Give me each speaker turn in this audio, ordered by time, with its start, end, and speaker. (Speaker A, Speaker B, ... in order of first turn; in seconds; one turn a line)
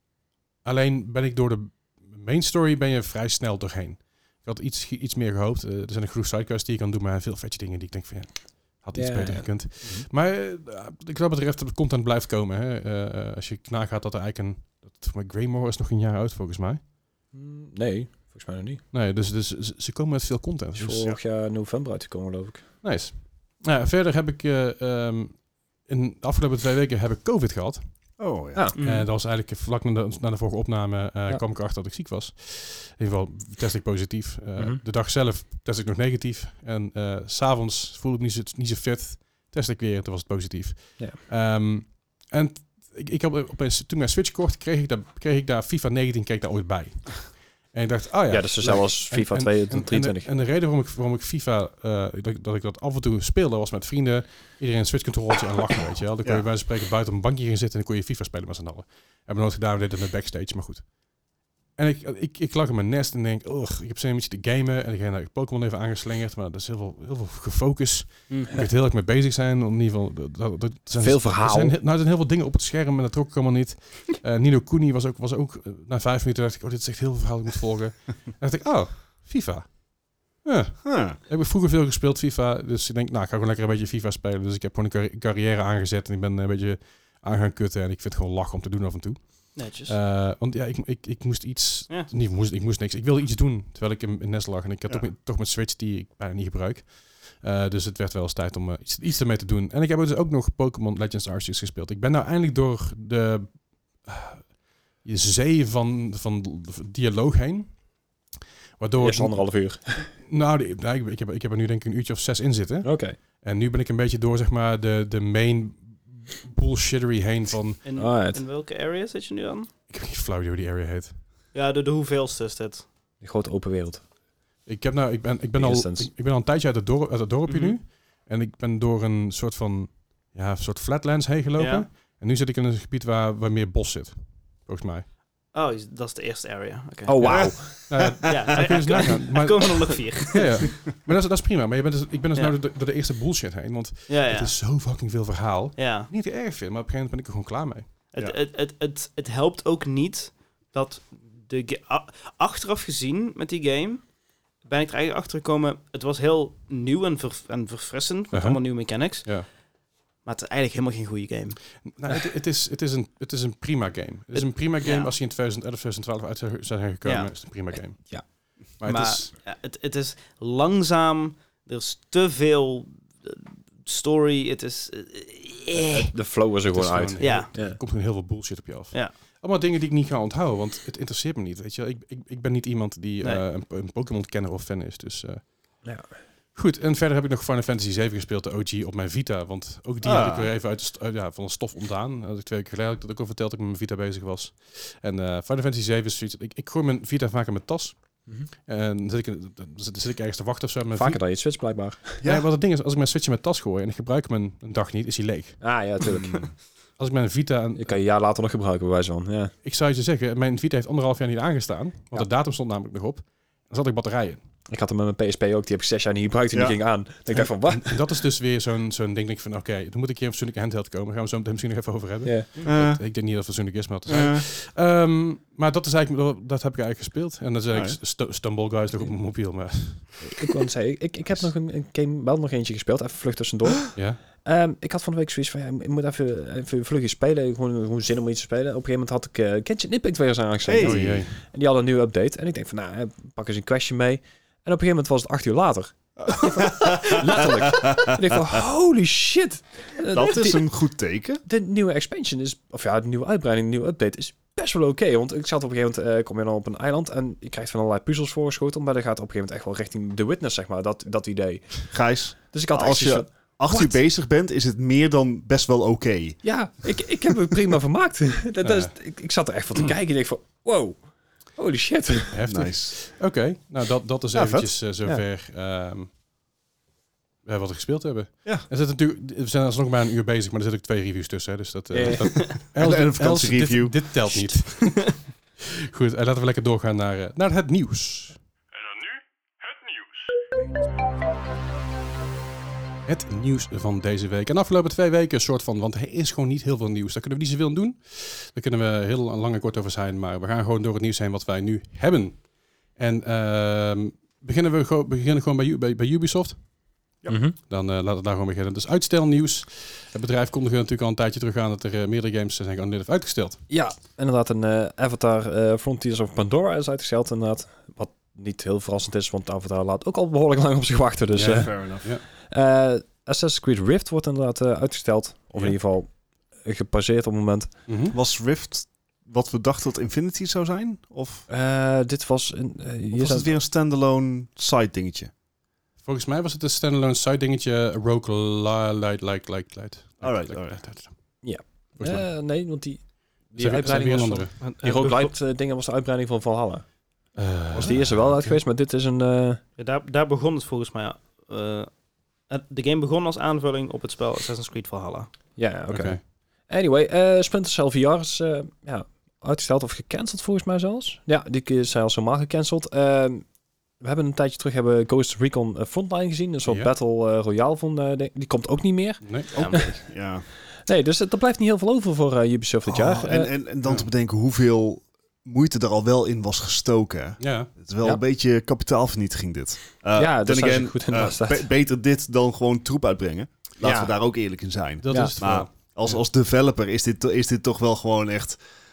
Speaker A: 0.6-16.8
Speaker B: 8.9-9.6
Speaker B: 17.3-18.8
Speaker A: 18.9-21.1
Speaker B: 20.8-22.7
Speaker A: 22.8-28.1
Speaker C: 28.2-28.7
Speaker D: 28.7-29.1
Speaker A: 28.8-60.9
Speaker B: 48.3-50.3
Speaker A: 61.8-107.8
Speaker D: 68.3-68.6
Speaker B: 71.0-71.8
Speaker C: 80.8-81.2
Speaker D: 89.5-90.0
Speaker A: 108.8-117.8
Speaker B: 109.0-110.1
Speaker B: 112.8-113.2
Speaker D: 117.8-119.7
Speaker B: 118.0-118.4
Speaker A: 119.9-121.2
Speaker D: 121.5-122.9
Speaker B: 123.2-124.0
Speaker A: 124.7-135.1
Speaker B: 125.6-126.1
Speaker D: 127.5-127.8
Speaker D: 131.6-131.9
Speaker D: 135.5-137.7
Speaker B: 137.1-138.0
Speaker C: 137.2-138.5
Speaker A: 137.9-147.9
Speaker D: 138.2-140.7
Speaker D: 144.1-144.5
Speaker D: 145.8-146.1
Speaker D: 148.1-154.1
Speaker D: 154.7-159.4
Speaker A: 158.3-159.5
Speaker D: 160.2-161.6
Speaker A: 161.8-169.3
Speaker D: 164.3-165.1
Speaker D: 167.1-167.3
Speaker D: 168.8-176.1
Speaker B: 175.8-177.8
Speaker A: 176.7-185.8
Speaker D: 177.2-177.5
Speaker B: 185.8-186.1
Speaker A: 186.5-201.2
Speaker C: 190.0-190.5
Speaker B: 200.9-202.2
Speaker C: 202.2-202.5
Speaker A: 202.2-205.6
Speaker B: 205.6-206.5
Speaker C: 206.1-206.5
Speaker A: 207.0-208.0
Speaker B: 207.8-209.5
Speaker A: 209.6-214.4
Speaker B: 214.7-218.0
Speaker C: 216.5-216.8
Speaker A: 217.6-230.5
Speaker B: 222.2-222.5
Speaker C: 222.7-223.0
Speaker C: 224.1-224.4
Speaker C: 227.7-228.0
Speaker B: 230.2-250.6
Speaker A: 233.9-234.2
Speaker C: 240.7-241.3
Speaker A: 240.8-241.4
Speaker C: 246.2-248.4
Speaker C: 250.1-251.4
Speaker B: 251.5-261.9
Speaker C: 261.9-266.4
Speaker B: 262.5-263.9
Speaker B: 266.4-271.0
Speaker A: 268.6-268.9
Speaker B: 271.6-272.4
Speaker A: 272.3-276.1
Speaker C: 272.4-273.0
Speaker C: 274.3-274.7
Speaker A: 277.4-288.4
Speaker B: 281.9-282.4
Speaker C: 282.7-284.4
Speaker A: 293.1-302.4
Speaker A: 303.0-306.6
Speaker B: 307.3-307.6
Speaker A: 307.7-313.6
Speaker B: 313.7-327.7
Speaker A: 321.3-322.2
Speaker C: 321.5-322.0
Speaker A: 327.9-328.2
Speaker C: 328.1-331.5
Speaker B: 331.5-333.5
Speaker C: 333.1-335.3
Speaker A: 336.0-341.1
Speaker C: 340.2-340.8
Speaker B: 341.4-346.9
Speaker A: 342.0-342.3
Speaker A: 343.6-344.6
Speaker D: 344.6-345.3
Speaker A: 347.4-348.6
Speaker B: 347.7-349.6
Speaker D: 349.8-351.9
Speaker D: 352.5-355.3
Speaker B: 355.6-363.4
Speaker A: 355.9-356.2
Speaker B: 364.0-369.9
Speaker A: 366.7-366.9
Speaker A: 369.2-369.5
Speaker D: 369.5-369.9
Speaker C: 369.5-370.4
Speaker B: 370.9-373.5
Speaker C: 372.9-388.6
Speaker A: 377.4-377.7
Speaker B: 380.2-381.7
Speaker B: 383.8-384.1
Speaker A: 385.0-386.2